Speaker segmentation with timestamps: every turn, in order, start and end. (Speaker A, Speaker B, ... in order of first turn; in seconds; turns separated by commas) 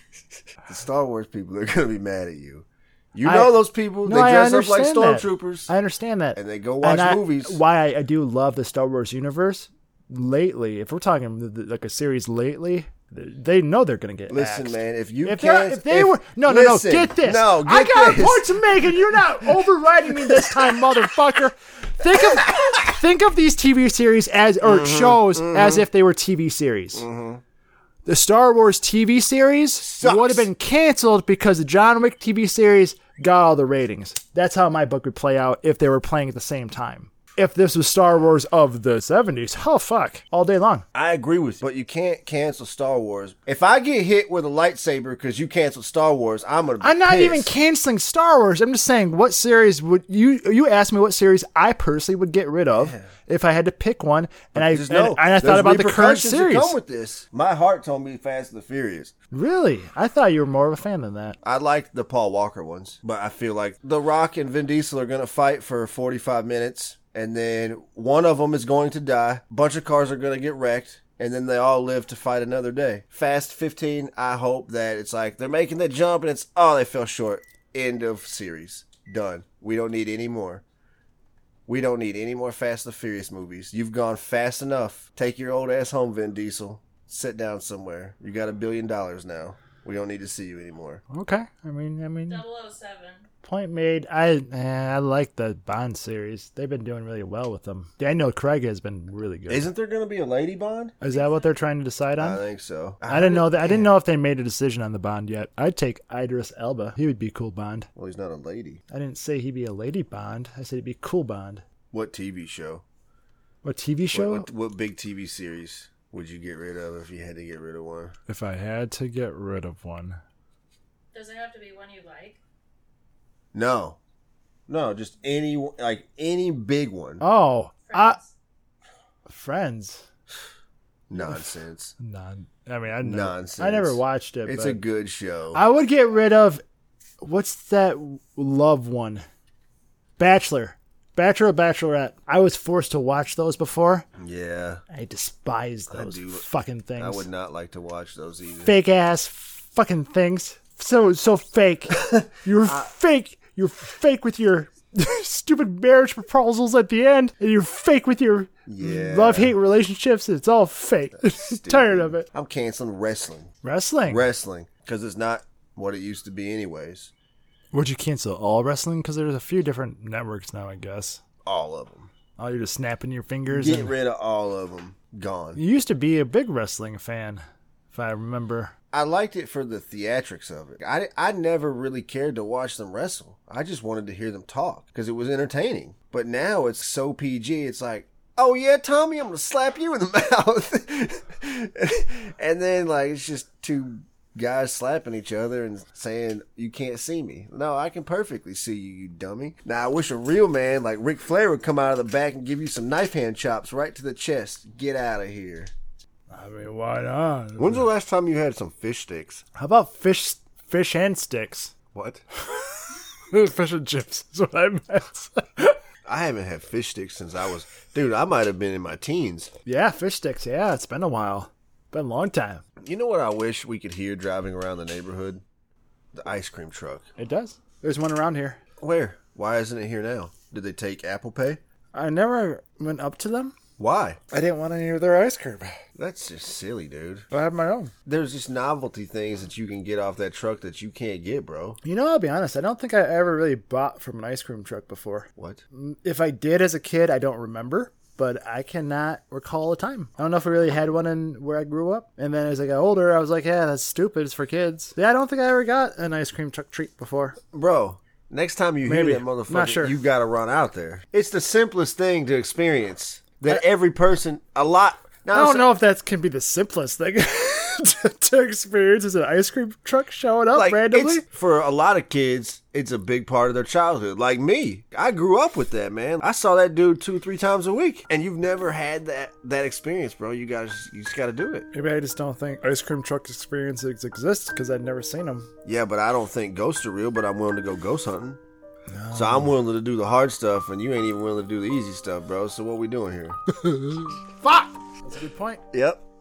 Speaker A: 0.6-5.7, Speaker B: 3.2-27.1, Speaker A: 6.3-7.6, Speaker A: 14.3-21.0, Speaker A: 22.3-22.7, Speaker A: 24.6-25.9, Speaker A: 26.9-27.4, Speaker B: 28.1-40.9, Speaker A: 29.8-30.5, Speaker A: 40.9-47.5, Speaker B: 46.8-56.8, Speaker A: 52.8-53.1, Speaker A: 54.5-59.1, Speaker B: 59.3-61.4, Speaker A: 61.4-80.6, Speaker A: 81.7-91.0, Speaker B: 91.1-92.4, Speaker C: 92.3-93.2, Speaker B: 93.4-99.7, Speaker A: 99.5-101.0, Speaker B: 101.0-102.4, Speaker C: 101.1-101.5, Speaker A: 102.2-104.0, Speaker B: 103.1-107.9, Speaker A: 108.0-108.8, Speaker B: 108.9-111.6, Speaker A: 111.9-112.8, Speaker B: 113.6-114.5, Speaker A: 114.1-118.2, Speaker B: 118.3-120.2, Speaker C: 121.1-122.4, Speaker A: 123.5-124.0, Speaker A: 124.7-127.2, Speaker B: 127.2-128.2, Speaker C: 127.9-128.3, Speaker B: 129.3-130.1, Speaker A: 131.1-131.9, Speaker B: 131.2-131.4, Speaker B: 132.0-134.8, Speaker A: 133.0-135.6, Speaker B: 135.5-136.6, Speaker B: 137.2-139.2, Speaker B: 140.2-144.1, Speaker A: 144.2-144.8, Speaker B: 144.9-147.3, Speaker A: 145.9-146.5, Speaker A: 147.0-148.7, Speaker B: 148.7-162.3, Speaker A: 152.0-152.9, Speaker A: 158.7-159.5, Speaker A: 161.2-163.5, Speaker B: 163.6-164.2, Speaker A: 164.1-167.1, Speaker B: 167.7-171.2, Speaker A: 171.4-172.1, Speaker B: 172.4-173.9, Speaker A: 173.5-175.6, Speaker B: 175.6-178.7, Speaker A: 178.9-205.7, Speaker B: 206.3-207.8, Speaker A: 207.6-209.4, Speaker B: 209.6-211.7, Speaker A: 211.9-212.2, Speaker B: 212.4-215.8, Speaker A: 216.1-219.5, Speaker B: 219.7-222.6, Speaker A: 222.8-225.4, Speaker A: 226.1-227.1, Speaker B: 227.2-228.6, Speaker A: 228.8-231.6, Speaker B: 231.9-233.6, Speaker A: 233.8-234.2, Speaker B: 234.3-235.7, Speaker A: 236.0-237.3, Speaker B: 237.3-237.9, Speaker A: 238.1-241.8, Speaker B: 241.8-257.4, Speaker A: 257.5-265.6, Speaker B: 258.9-259.9, Speaker B: 265.3-271.2, Speaker A: 270.6-281.7, Speaker B: 281.7-285.5, Speaker A: 285.6-288.4, Speaker B: 288.9-289.5, Speaker A: 289.1-293.4, Speaker B: 293.6-295.6, Speaker A: 295.7-296.0